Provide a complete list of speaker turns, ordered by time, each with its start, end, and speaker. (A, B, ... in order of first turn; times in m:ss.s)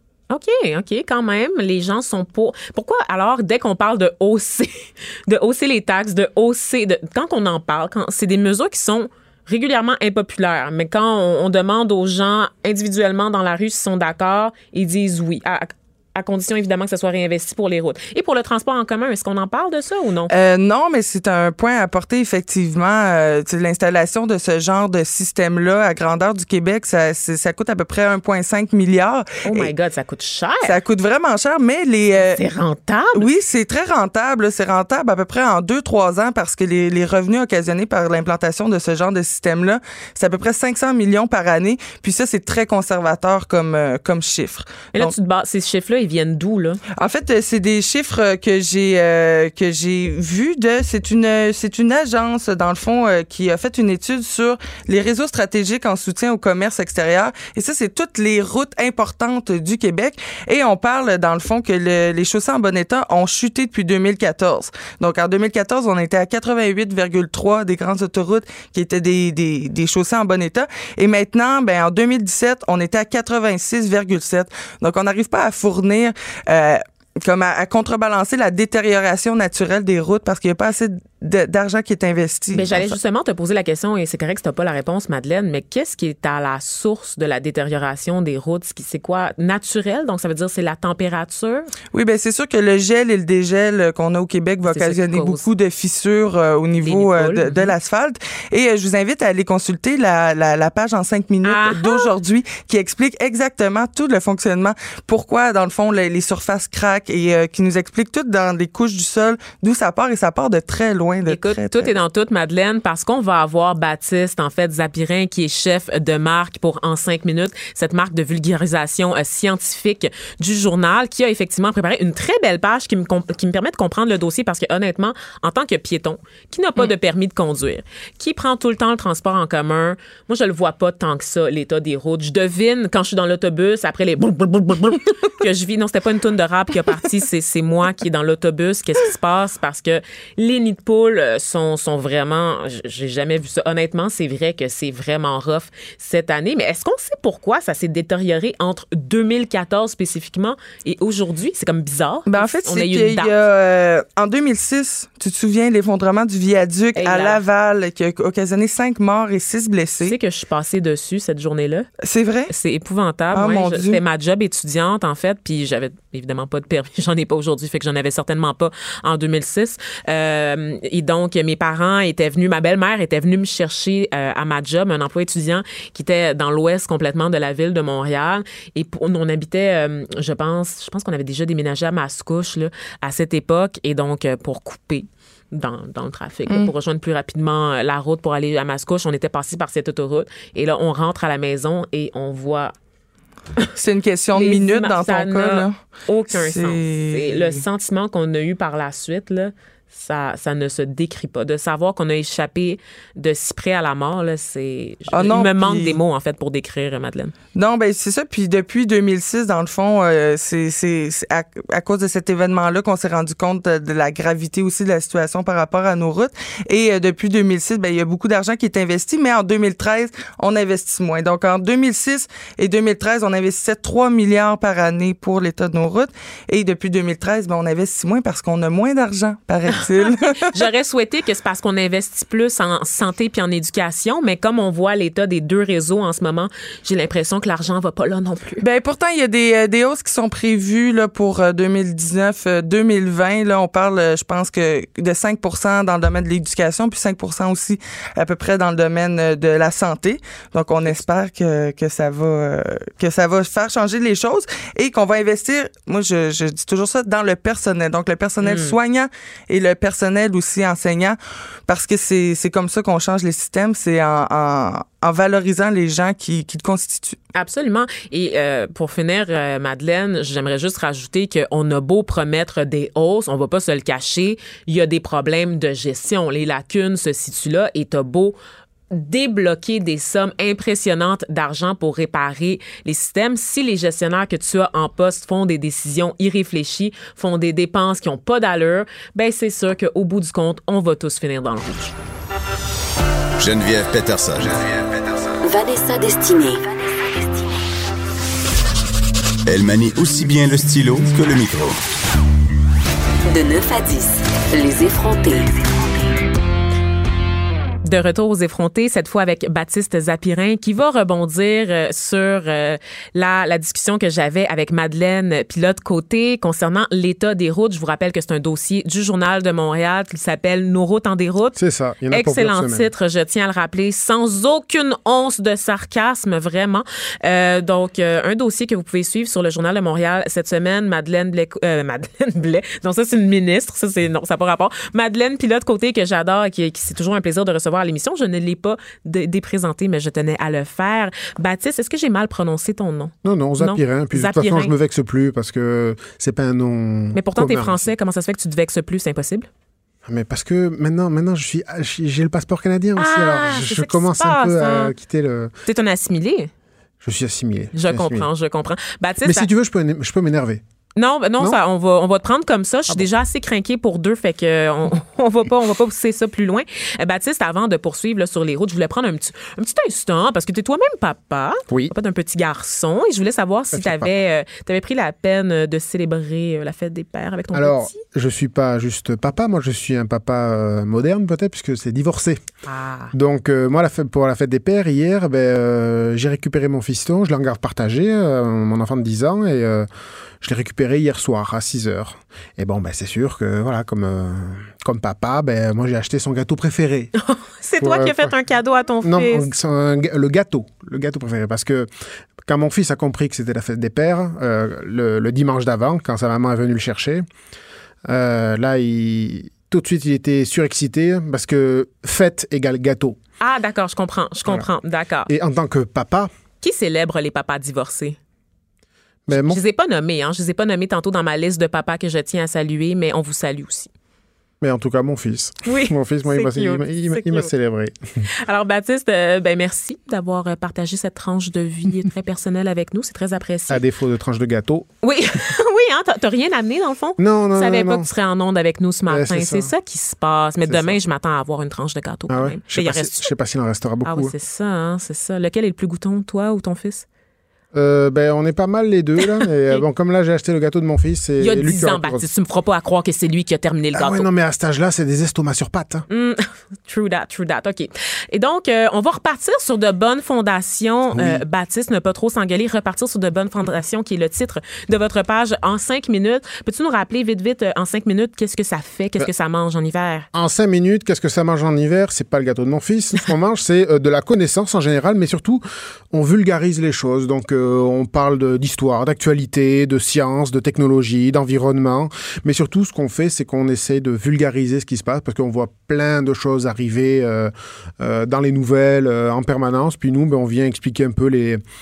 0:00.3-0:20.3 A
0:20.3-0:29.7 B
0:29.4-0:30.8 A
0:30.6-0:32.4 B
0:32.2-0:33.3 A
0:33.1-0:45.1 B
0:44.9-0:46.8 A
0:47.0-1:23.0 B
1:22.5-1:31.7 A
1:31.9-1:51.9 B
1:34.6-1:35.5 A
1:36.8-1:37.8 A
1:41.4-1:42.1 A
1:51.3-2:33.4 A
2:32.3-2:40.2 B
2:37.0-2:37.4 A
2:40.0-2:41.9 A
2:42.0-2:42.5 B
2:42.5-3:12.7 A
2:43.3-2:44.0 B
3:13.8-3:15.8 B
3:14.3-3:27.3 A
3:16.3-3:17.6 B
3:25.1-3:26.0 B
3:27.6-3:50.6 B
3:49.7-3:58.6 A
3:58.6-4:27.2 B
4:18.4-4:18.8 A
4:27.4-4:38.4 A
4:38.9-4:51.9 A
4:53.4-4:55.1 C
4:55.4-4:57.2 D
4:59.5-5:01.8 C
5:03.3-5:05.5 D
5:07.8-5:21.6 A
5:21.6-5:22.9 E
5:22.1-5:44.7 A
5:43.2-5:47.9 E
5:47.2-5:49.5 A
5:50.1-5:55.5 E
5:53.0-5:54.9 A
5:55.7-5:56.5 A
5:57.0-5:58.3 E
5:57.7-5:59.5 A
5:59.2-6:00.6 E
6:01.0-6:18.0 A
6:13.7-6:14.1 E
6:17.5-6:22.4 E
6:22.7-6:23.1 A
6:23.1-6:29.9 E
6:30.4-6:37.1 E
6:37.2-6:39.5 A
6:37.8-6:38.3 E
6:39.0-6:41.9 E
6:42.5-6:47.2 E
6:48.1-6:53.2 E
6:53.4-6:55.3 A
6:55.3-6:56.3 E
6:56.6-6:58.2 A
6:59.3-6:59.6 E
6:59.3-7:03.9 A
7:04.6-7:08.2 E
7:05.7-7:07.5 A
7:08.4-7:13.8 A
7:13.7-7:14.9 E
7:15.0-7:23.3 A
7:17.2-7:18.1 E
7:19.1-7:19.7 E
7:20.7-7:21.0 E
7:22.3-7:24.3 E
7:24.0-7:27.0 A
7:27.7-7:32.2 E
7:29.2-7:29.8 A
7:31.4-7:34.3 A
7:33.9-7:36.0 E
7:36.1-7:50.3 A
7:41.1-7:41.4 E
7:50.3-8:11.6 E